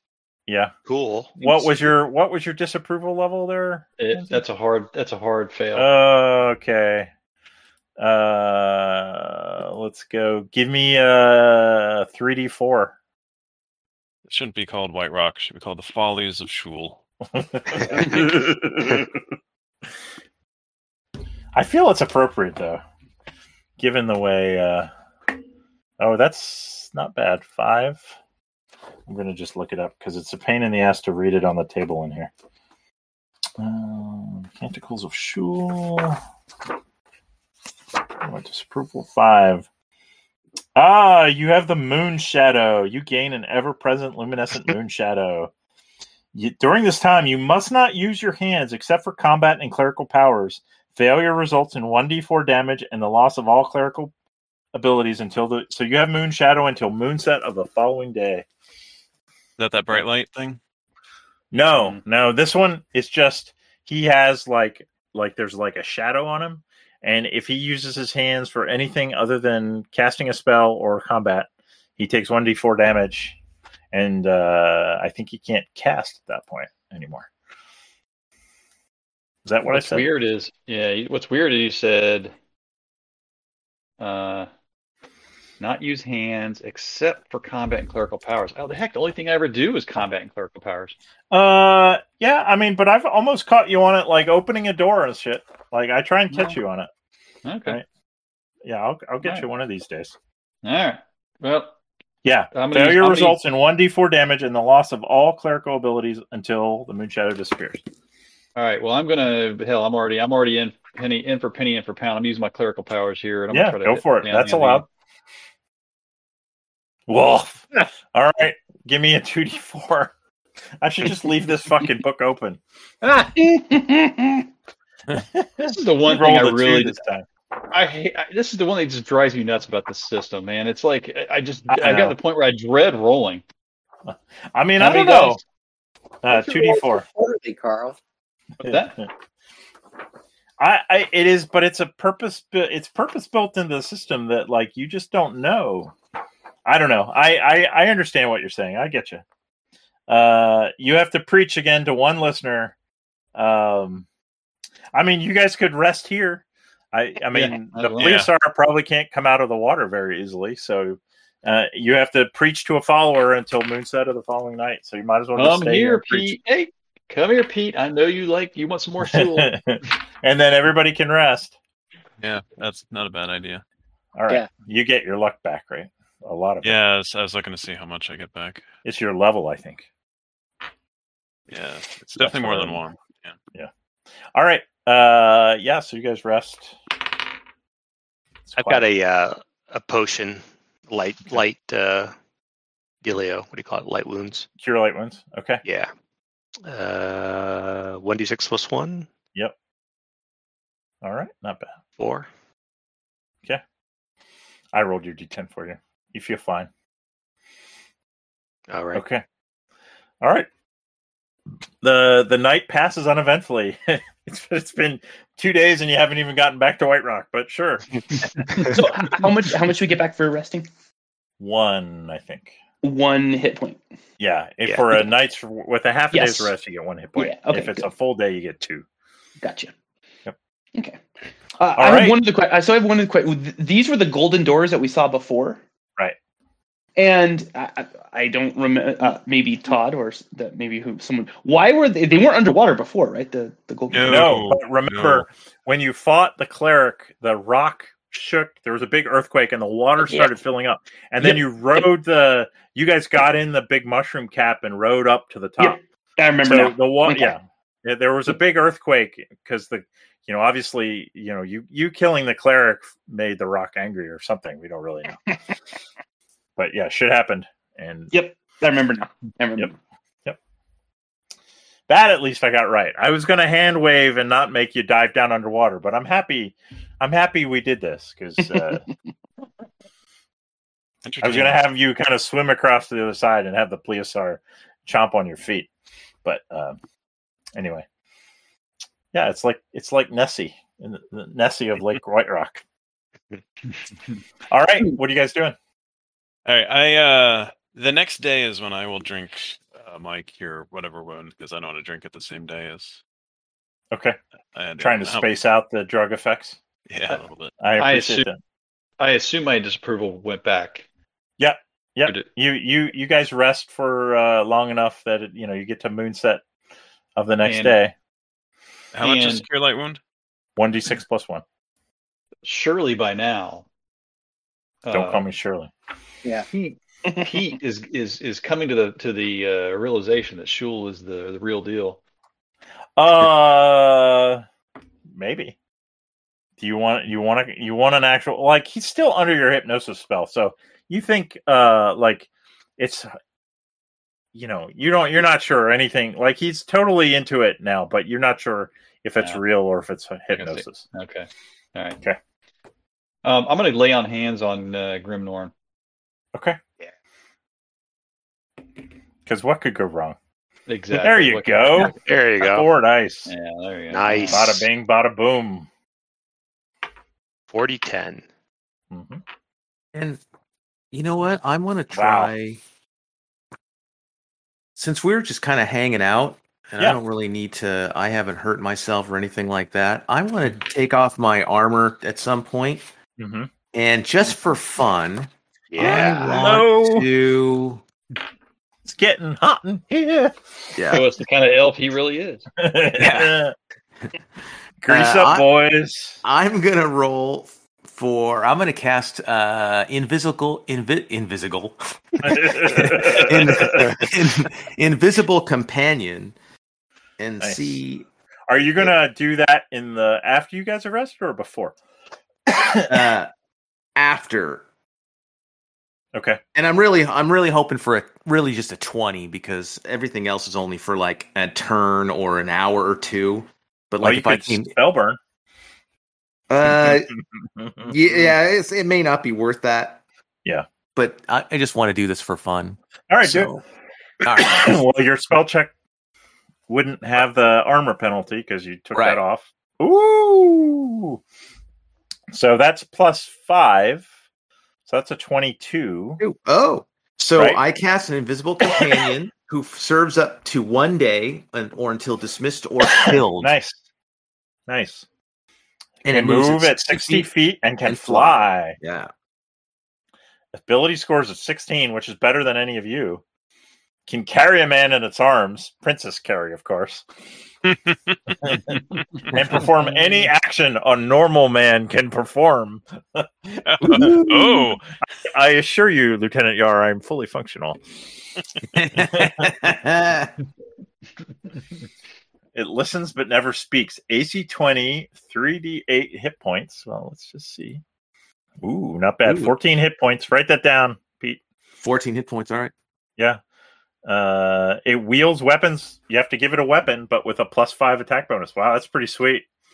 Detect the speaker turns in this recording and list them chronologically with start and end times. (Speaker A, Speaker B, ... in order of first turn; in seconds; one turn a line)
Speaker A: 0.5-0.7
Speaker B: 0.8-1.3
Speaker A: 1.4-4.4
Speaker C: 1.4-1.9
Speaker C: 4.0-5.9
Speaker A: 5.7-7.1
Speaker A: 8.0-12.9
Speaker D: 14.3-17.0
Speaker A: 17.3-19.2
Speaker A: 21.5-22.8
Speaker A: 23.8-24.9
Speaker A: 26.0-28.1
Speaker A: 29.1-32.3
Speaker A: 33.6-36.2
Speaker A: 38.2-39.7
Speaker A: 40.8-45.5
Speaker A: 46.3-54.1
Speaker A: 54.7-58.5
Speaker D: 59.6-60.6
Speaker A: 61.5-73.3
Speaker C: 61.7-62.0
Speaker A: 73.9-77.3
Speaker A: 79.4-80.1
Speaker C: 79.7-82.3
Speaker C: 84.0-84.5
Speaker C: 85.6-91.0
Speaker A: 91.3-96.9
Speaker C: 96.3-96.6
Speaker C: 97.4-97.8
Speaker A: 98.6-100.2
Speaker C: 99.2-99.5
Speaker C: 100.6-101.7
Speaker A: 102.2-107.8
Speaker C: 102.5-103.4
Speaker C: 108.5-114.8
Speaker A: 113.5-114.8
Speaker A: 117.1-120.1
Speaker A: 120.8-122.6
Speaker E: 123.0-123.3
Speaker F: 123.3-124.5
Speaker A: 125.2-127.2
Speaker C: 125.6-127.0
Speaker C: 127.7-133.4
Speaker A: 131.7-132.2
Speaker A: 134.1-135.4
Speaker C: 134.8-135.4
Speaker A: 136.2-137.0
Speaker E: 136.3-138.0
Speaker C: 138.6-138.9
Speaker A: 138.6-139.1
Speaker A: 140.6-145.9
Speaker A: 146.6-149.2
Speaker A: 150.1-152.7
Speaker A: 153.3-154.1
Speaker A: 154.9-166.3
Speaker C: 157.3-158.2
Speaker D: 158.0-158.3
Speaker C: 165.3-169.5
Speaker A: 169.0-171.6
Speaker D: 172.2-173.6
Speaker A: 174.2-176.8
Speaker D: 176.6-178.7
Speaker A: 178.8-179.9
Speaker D: 181.5-183.3
Speaker A: 182.2-182.8
Speaker A: 184.3-186.8
Speaker A: 188.5-188.8
Speaker B: 188.5-192.1
Speaker B: 193.0-194.5
Speaker A: 194.6-195.6
Speaker B: 195.6-195.9
Speaker B: 196.7-199.1
Speaker A: 201.0-201.8
Speaker B: 202.0-202.3
Speaker A: 204.7-206.7
Speaker B: 208.7-209.0
Speaker A: 208.9-209.2
Speaker A: 210.2-210.5
Speaker A: 211.8-217.9
Speaker C: 218.3-218.7
Speaker F: 218.7-220.7
Speaker A: 221.4-222.5
Speaker F: 222.8-223.8
Speaker A: 224.2-228.8
Speaker F: 226.1-226.5
Speaker F: 227.2-227.9
Speaker F: 229.4-229.7
Speaker F: 231.6-235.6
Speaker A: 231.8-232.2
Speaker F: 236.9-244.2
Speaker D: 243.9-245.3
Speaker A: 244.0-255.8
Speaker F: 250.0-250.3
Speaker F: 251.2-251.8
Speaker F: 255.6-257.3
Speaker A: 256.4-265.2
Speaker A: 266.6-268.1
Speaker F: 268.1-269.7
Speaker A: 271.9-278.8
Speaker F: 278.4-278.8
Speaker D: 281.0-281.6
Speaker A: 281.2-285.7
Speaker A: 286.2-286.8
Speaker A: 287.5-287.8
Speaker A: 289.1-292.6
Speaker A: 294.5-295.6
Speaker D: 296.4-303.0
Speaker A: 303.9-304.2
Speaker D: 304.5-305.3
Speaker A: 304.8-306.6
Speaker D: 306.9-307.6
Speaker A: 307.6-308.4
Speaker C: 307.8-308.3
Speaker C: 309.0-310.8
Speaker A: 311.4-316.4
Speaker A: 317.1-317.9
Speaker C: 317.4-317.8
Speaker D: 318.9-320.0
Speaker C: 319.0-319.4
Speaker A: 320.6-321.4
Speaker C: 322.4-323.6
Speaker C: 324.8-325.2
Speaker A: 324.9-325.7
Speaker C: 326.5-332.0
Speaker F: 327.0-327.3
Speaker A: 333.0-334.4
Speaker A: 335.1-335.6
Speaker A: 336.6-343.1
Speaker A: 344.3-350.9
Speaker C: 350.3-352.0
Speaker C: 353.2-355.5
Speaker A: 356.3-356.6
Speaker A: 359.2-360.1
Speaker C: 360.7-361.9
Speaker A: 360.9-363.3
Speaker B: 361.8-362.7
Speaker C: 363.2-364.5
Speaker B: 363.9-364.6
Speaker A: 364.3-365.7
Speaker B: 367.5-368.2
Speaker A: 368.9-369.2
Speaker G: 369.9-370.2
Speaker G: 370.9-372.6
Speaker A: 371.9-372.3
Speaker G: 374.8-382.8
Speaker A: 383.2-383.5
Speaker G: 383.7-387.8
Speaker B: 385.7-386.6
Speaker A: 385.8-387.1
Speaker A: 388.8-390.8
Speaker G: 390.8-391.1
Speaker C: 390.9-392.4
Speaker A: 392.6-393.5
Speaker G: 392.9-393.4
Speaker A: 394.8-396.2
Speaker G: 394.9-395.5
Speaker G: 396.2-406.3
Speaker A: 402.2-403.9
Speaker B: 403.7-404.0
Speaker G: 407.2-408.1
Speaker A: 407.4-407.8
Speaker A: 408.5-411.7
Speaker A: 412.5-413.0
Speaker G: 412.9-413.3
Speaker G: 413.9-414.6
Speaker A: 416.1-416.4
Speaker G: 416.5-424.8
Speaker A: 424.0-425.2
Speaker G: 426.5-427.1
Speaker A: 426.6-427.9
Speaker G: 427.8-430.0
Speaker G: 430.9-433.6
Speaker A: 433.1-433.6
Speaker G: 434.2-434.7
Speaker A: 434.3-435.7
Speaker A: 436.7-441.2
Speaker G: 438.9-439.2
Speaker A: 442.3-444.1
Speaker A: 444.9-446.2
Speaker G: 446.2-453.5
Speaker A: 448.7-449.1
Speaker A: 452.8-453.8
Speaker A: 454.7-455.1
Speaker A: 456.0-458.8
Speaker G: 456.0-457.3
Speaker G: 457.8-459.1
Speaker A: 460.5-463.2
Speaker A: 464.1-467.1
Speaker D: 467.7-468.6
Speaker A: 468.4-473.3
Speaker D: 473.6-474.8
Speaker A: 473.8-477.8
Speaker G: 473.8-474.3
Speaker G: 478.7-480.3
Speaker A: 478.9-479.7
Speaker A: 482.5-487.8
Speaker A: 488.6-491.4
Speaker G: 489.2-489.5
Speaker G: 491.8-492.7
Speaker A: 494.0-499.4